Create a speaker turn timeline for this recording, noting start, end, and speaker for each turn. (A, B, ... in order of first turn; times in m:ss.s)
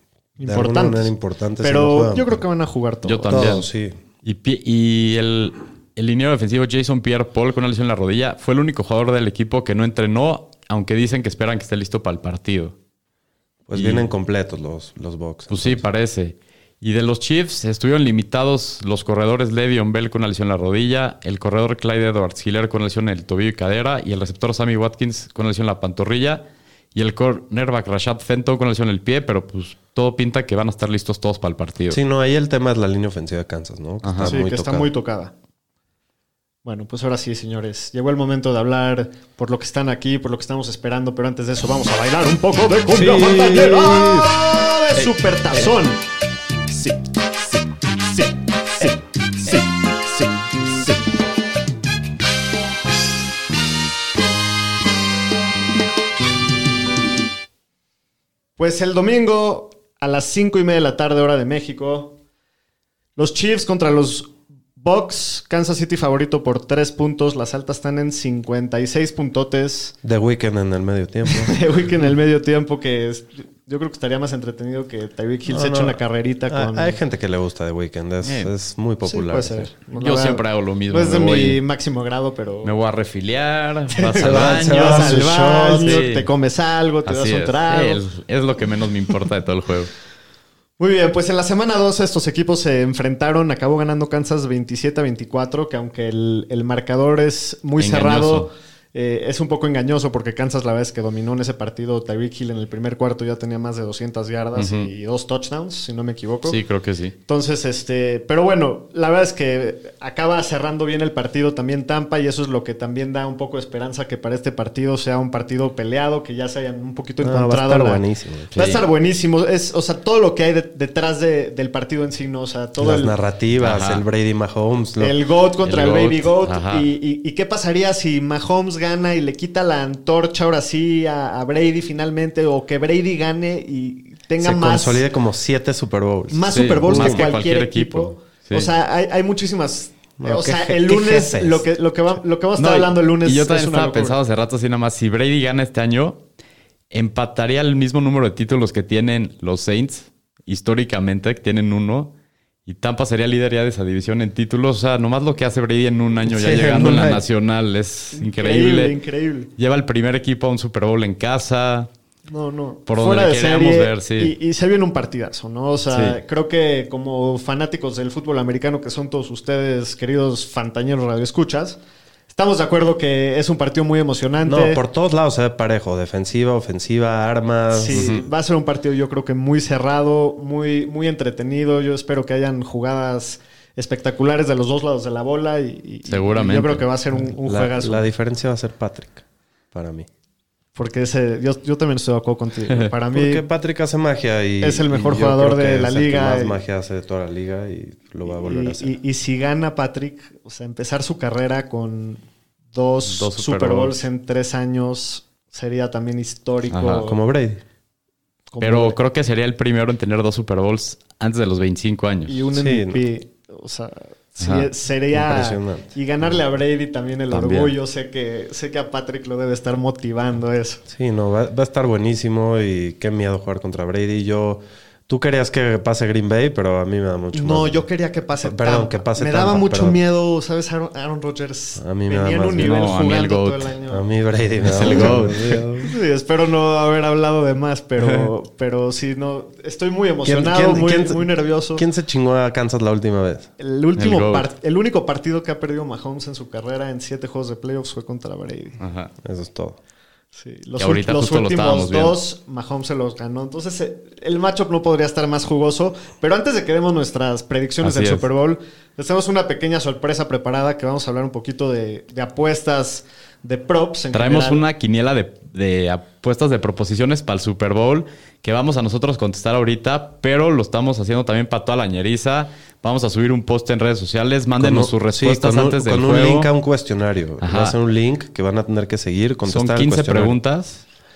0:00.4-0:03.5 A
0:00.4-0:02.4 B
0:03.1-0:03.7 C
0:03.3-0:04.0 B
0:04.2-0:12.8 C
0:13.7-0:15.8 B
0:13.7-0:14.1 C
0:15.5-0:26.4 C
0:27.0-0:32.0 C
0:31.9-0:34.9 B
0:34.0-0:34.4 C
0:34.2-0:35.3 A
0:36.6-0:46.0 A
0:42.9-0:44.3 B
0:46.7-0:51.0 A
0:58.6-1:02.2 A
1:03.2-1:10.0 A
1:10.0-1:11.6 B
1:11.4-1:17.0 A
1:15.5-1:19.7 B
1:18.2-1:18.5 C
1:19.0-1:22.7 A
1:20.0-1:21.6 C
1:22.6-1:26.3 C
1:23.9-1:28.0 A
1:24.2-1:26.0 B
1:27.1-1:29.9 C
1:30.8-1:46.6 A
1:37.8-1:38.5 C
1:44.6-1:44.9 C
1:46.5-1:47.2 C
1:47.3-1:58.0 A
1:57.2-1:58.5 B
1:58.5-1:58.8 C
1:58.6-2:03.2 A
2:02.8-2:05.2 B
2:03.6-2:04.0 C
2:05.0-2:15.0 A
2:05.6-2:06.9 C
2:14.4-2:17.4 B
2:16.3-2:24.2 A
2:16.5-2:18.7 C
2:20.2-2:21.6 B
2:22.6-2:26.2 C
2:26.9-2:32.1 C
2:32.7-2:39.0 C
2:36.3-2:37.2 B
2:38.1-2:39.5 A
2:39.6-2:41.9 C
2:42.3-2:51.8 A
2:42.9-2:44.3 C
2:45.9-2:46.2 C
2:52.3-2:54.8 A
2:54.4-2:58.3 B
2:57.7-3:08.1 A
2:57.9-2:58.2 C
3:06.1-3:06.8 C
3:07.4-3:10.1 B
3:10.8-3:13.4 A
3:13.1-3:19.0 B
3:14.6-3:16.6 A
3:18.3-3:27.2 A
3:23.1-3:24.0 C
3:26.7-3:27.1 C
3:27.0-3:27.6 B
3:28.5-3:29.0 A
3:28.6-3:32.5 C
3:32.3-3:40.8 A
3:32.5-3:33.0 B
3:34.4-3:34.7 C
3:35.1-3:35.9 B
3:37.3-3:37.7 C
3:40.9-3:47.8 B
3:47.3-3:54.1 A
3:48.4-3:50.0 B
3:51.8-3:52.9 B
3:52.6-3:53.7 C
3:53.9-3:55.9 B
3:54.6-3:55.6 C
3:54.8-4:01.8 A
4:00.2-4:03.5 B
4:03.6-4:08.8 A
4:04.0-4:04.5 C
4:08.8-4:09.1 C
4:09.2-4:09.8 B
4:10.4-4:24.6 A
4:10.8-4:12.2 C
4:17.8-4:18.3 C
4:24.1-4:36.5 C
4:34.6-4:40.4 B
4:37.4-4:37.8 C
4:39.5-4:40.8 C